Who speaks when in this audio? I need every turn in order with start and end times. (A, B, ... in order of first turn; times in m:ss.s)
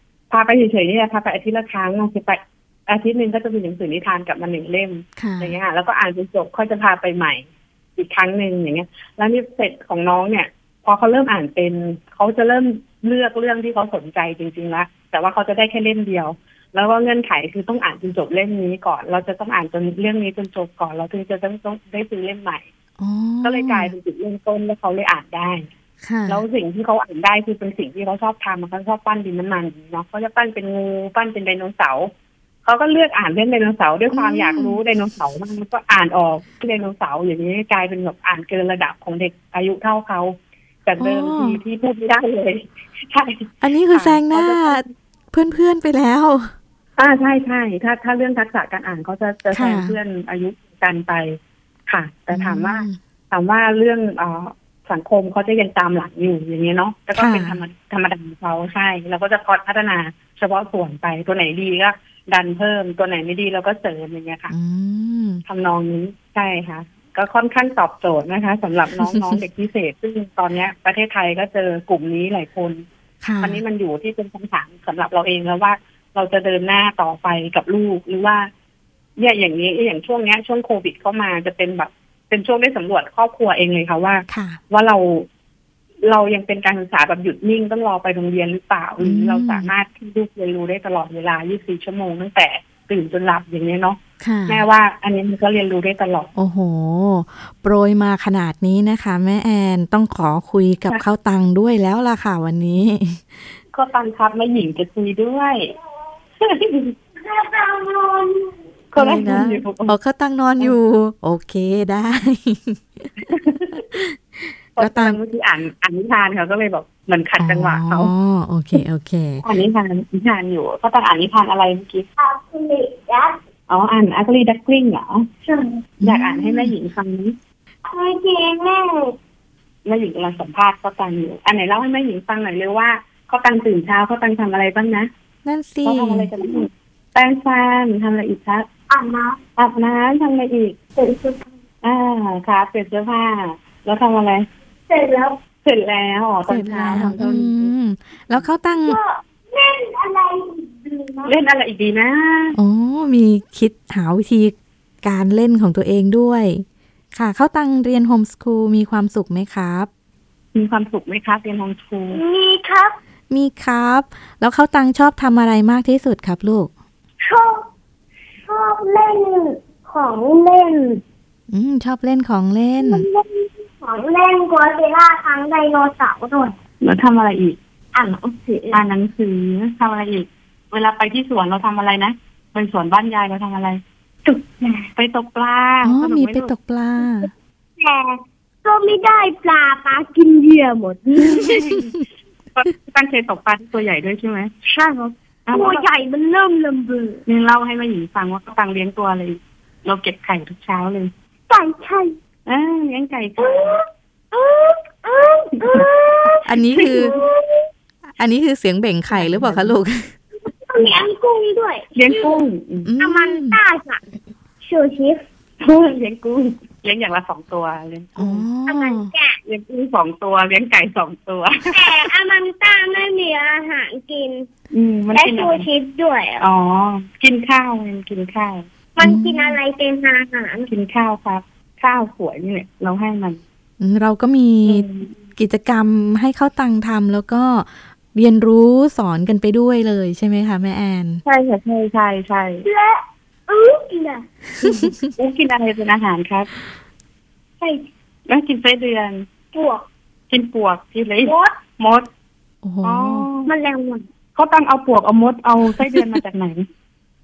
0:00.3-0:07.4 A
0:05.2-0:05.6 B
0:08.0-0:22.7 A
0:23.0-0:23.9 B
0:23.4-0:25.7 A
0:26.0-0:26.4 B
0:26.3-0:32.1 A
0:32.6-0:44.9 A
0:34.1-0:34.8 B
0:41.0-0:41.6 B
0:43.6-0:46.5 B
0:47.0-1:04.5 A
0:49.5-0:50.0 B
0:52.3-0:53.0 B
0:57.2-0:57.6 B
1:04.5-1:05.4 B
1:05.5-1:12.8 A
1:13.2-1:13.6 B
1:13.4-1:18.5 A
1:19.2-1:25.3 A
1:24.3-1:24.6 B
1:26.0-1:36.3 A
1:29.0-1:29.7 B
1:34.2-1:34.6 B
1:36.4-1:43.5 B
1:43.7-1:45.7 A
1:46.4-1:47.0 A
1:47.2-1:48.5 C
1:48.9-1:50.0 A
1:49.0-1:53.1 B
1:53.2-1:54.0 A
1:53.8-1:54.2 B
1:54.8-1:58.1 A
1:54.8-1:55.2 B
1:57.4-1:59.4 B
1:59.4-2:02.1 A
2:02.2-2:03.4 C
2:03.7-2:05.3 A
2:05.5-2:05.8 C
2:06.0-2:06.8 B
2:06.0-2:07.4 A
2:07.9-2:09.2 C
2:09.9-2:15.1 A
2:15.4-2:16.3 B
2:15.8-2:18.7 A
2:18.9-2:19.4 C
2:19.6-2:20.8 A
2:21.0-2:21.4 C
2:21.8-2:24.5 A
2:24.9-2:25.4 C
2:25.6-2:27.7 A
2:26.5-2:29.0 B
2:28.9-2:31.3 C
2:31.2-2:32.6 A
2:32.6-2:39.9 B
2:40.6-2:42.2 A
2:42.1-2:43.0 C
2:43.3-2:46.7 B
2:47.2-2:47.7 C
2:48.5-2:51.0 C
2:51.5-2:53.1 B
2:52.8-2:56.6 C
2:56.8-2:57.6 A
2:57.9-2:58.8 C
2:58.7-3:03.8 A
3:04.2-3:04.9 C
3:05.0-3:06.5 A
3:05.8-3:07.3 B
3:08.6-3:11.7 C
3:11.2-3:12.0 A
3:12.6-3:14.5 A
3:14.6-3:17.2 C
3:15.5-3:15.8 A
3:17.3-3:21.1 A
3:21.5-3:22.2 C
3:22.5-3:23.8 A
3:23.4-3:27.7 C
3:26.5-3:27.1 B
3:26.8-3:27.2 A
3:28.2-3:30.1 B
3:29.1-3:29.7 A
3:30.5-3:32.4 C
3:32.0-3:32.9 A
3:32.8-3:33.6 B
3:33.0-3:34.0 C
3:34.6-3:35.2 C
3:35.6-3:38.5 A
3:38.2-3:39.1 B
3:38.7-3:39.4 C
3:39.5-3:42.0 A
3:41.7-3:44.5 C
3:44.7-3:45.7 A
3:45.2-3:46.4 C
3:46.4-3:48.6 A
3:49.0-3:50.7 C
3:49.0-3:49.5 B
3:50.7-3:53.4 A
3:53.8-4:01.2 B
3:54.6-3:55.1 A
4:01.2-4:02.7 A
4:02.6-4:04.3 C
4:04.6-4:06.5 A
4:04.6-4:04.9 B
4:08.3-4:09.3 A
4:09.5-4:09.8 C
4:10.3-4:12.1 A
4:11.2-4:11.6 C
4:12.6-4:13.3 B
4:12.8-4:13.5 A
4:13.5-4:14.0 C
4:14.4-4:16.7 A